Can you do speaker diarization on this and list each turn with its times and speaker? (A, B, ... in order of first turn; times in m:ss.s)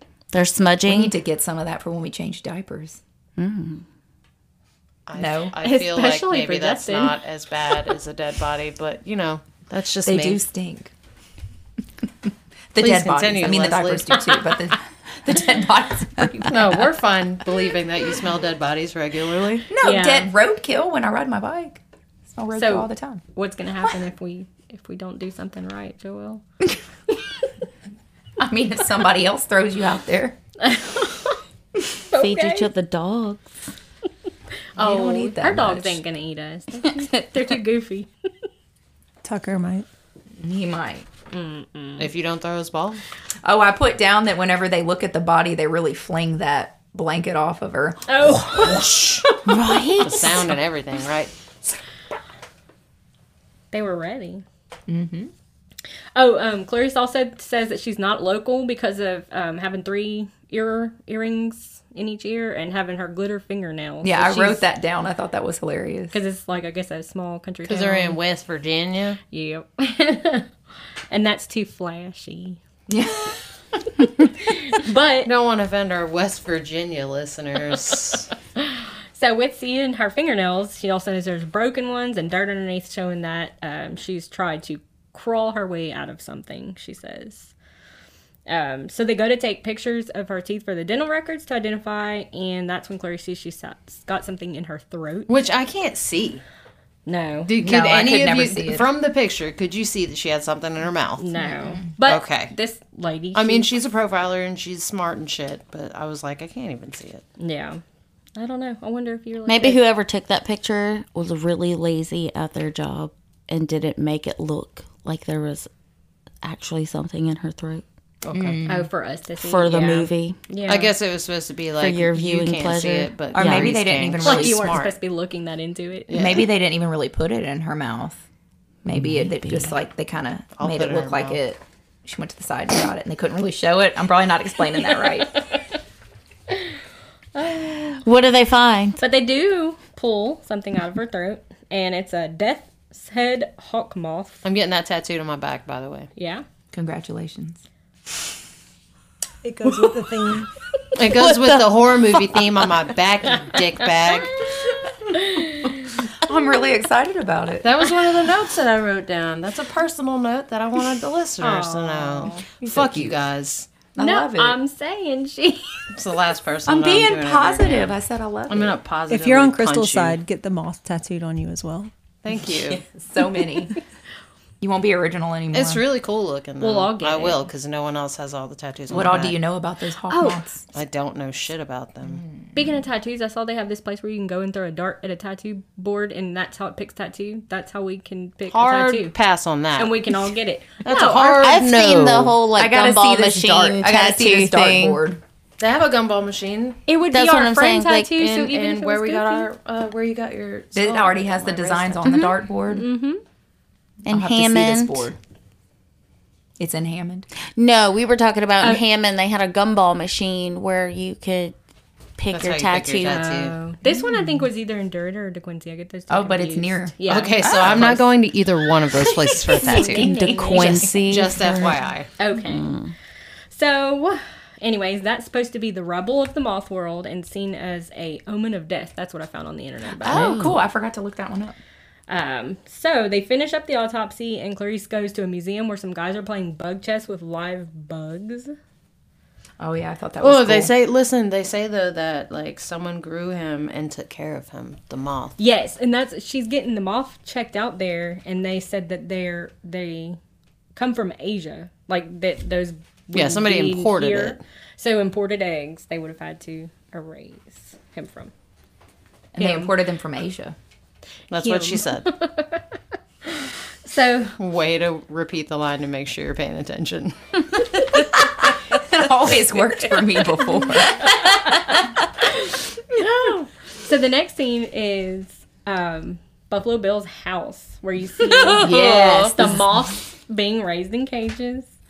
0:00.3-0:01.2 A
0:00.9-0:03.0 B
0:03.4-0:03.8 A
0:05.1-0:10.4 C
0:05.2-0:05.6 B
0:05.6-0:07.2 D
0:10.1-0:10.9 B
0:12.7-0:16.8 B
0:12.8-0:14.2 C
0:14.2-0:14.6 D
0:16.5-0:19.7 C
0:19.7-0:23.2 B
0:19.8-0:20.3 D
0:22.5-0:26.4 D
0:28.4-0:30.4 B
0:30.6-0:31.4 D
0:32.1-0:32.7 D
0:32.1-0:33.6 A
0:34.8-0:38.5 D
0:34.8-0:36.0 B
0:39.2-0:39.9 E
0:40.4-0:41.1 B
0:41.3-0:42.1 D
0:42.0-0:43.0 C
0:43.4-0:48.2 B
0:48.1-0:49.6 D
0:48.5-0:49.2 C
0:49.5-0:50.5 B
0:49.7-0:50.1 A
0:50.0-0:51.7 C
0:53.7-0:54.4 D
0:54.9-0:55.3 B
0:56.2-1:04.6 D
1:04.0-1:06.2 B
1:06.1-1:08.2 D
1:07.7-1:09.2 C
1:09.3-1:10.5 D
1:11.1-1:12.6 D
1:12.9-1:13.4 B
1:14.4-1:15.3 D
1:15.2-1:18.3 C
1:18.6-1:27.5 D
1:28.5-1:35.3 D
1:35.3-1:36.4 C
1:37.1-1:37.7 D
1:37.5-1:41.2 C
1:37.6-1:38.9 B
1:41.2-1:43.7 D
1:41.4-1:41.9 B
1:42.0-1:42.5 C
1:43.3-1:47.2 C
1:47.4-1:47.8 D
1:48.4-1:49.8 D
1:49.5-1:55.7 A
1:56.4-1:57.8 A
1:58.3-1:58.9 B
1:58.6-2:00.9 D
1:59.4-2:00.4 A
2:00.7-2:05.0 C
2:01.8-2:03.8 A
2:03.3-2:04.8 B
2:04.2-2:06.2 D
2:06.1-2:06.5 C
2:06.1-2:08.2 B
2:08.8-2:15.5 B
2:08.9-2:09.7 A
2:10.6-2:11.4 C
2:17.4-2:18.0 D
2:18.0-2:19.0 A
2:19.0-2:24.4 D
2:24.4-2:26.1 C
2:26.2-2:26.4 D
2:26.7-2:27.6 B
2:29.4-2:30.5 E
2:31.0-2:34.5 C
2:31.2-2:31.6 A
2:34.3-2:36.0 D
2:35.7-2:37.7 B
2:37.6-2:43.7 C
2:41.4-2:42.5 D
2:42.6-2:43.2 B
2:44.0-2:44.6 B
2:44.0-2:45.8 D
2:45.9-2:47.9 C
2:46.7-2:48.8 B
2:48.5-2:50.2 C
2:49.1-2:51.9 E
2:52.2-2:52.8 C
2:52.4-2:53.8 B
2:54.6-2:55.8 B
2:55.5-2:59.4 C
2:56.6-2:57.4 D
2:58.9-3:00.6 B
3:00.1-3:00.4 D
3:00.7-3:02.2 C
3:02.0-3:02.6 B
3:02.5-3:09.1 D
3:08.5-3:10.2 C
3:09.8-3:11.4 D
3:10.8-3:12.4 C
3:11.2-3:15.0 A
3:12.6-3:15.2 B
3:15.6-3:16.8 C
3:16.9-3:19.5 D
3:17.1-3:18.1 A
3:18.2-3:22.1 C
3:20.8-3:22.9 B
3:22.1-3:23.2 D
3:24.0-3:25.1 A
3:24.1-3:25.2 B
3:26.6-3:27.3 B
3:27.6-3:31.6 A
3:32.2-3:33.3 A
3:32.3-3:33.6 C
3:33.1-3:37.4 D
3:33.8-3:34.4 B
3:36.1-3:38.1 B
3:37.1-3:40.1 C
3:38.8-3:41.0 B
3:39.6-3:40.9 D
3:39.9-3:41.8 A
3:40.6-3:42.1 C
3:42.2-3:42.8 D
3:42.3-3:42.9 A
3:43.5-3:50.4 D
3:50.0-3:51.6 B
3:50.1-3:50.6 A
3:52.1-3:58.5 D
3:59.6-4:00.7 B
4:00.2-4:05.4 C
4:05.4-4:10.2 D
4:10.8-4:18.3 D
4:13.1-4:14.4 C
4:19.4-4:20.6 B
4:19.4-4:19.7 D
4:21.3-4:22.1 C
4:21.4-4:24.4 D
4:24.4-4:27.6 C
4:28.1-4:31.8 B
4:31.5-4:41.7 D
4:38.4-4:39.9 B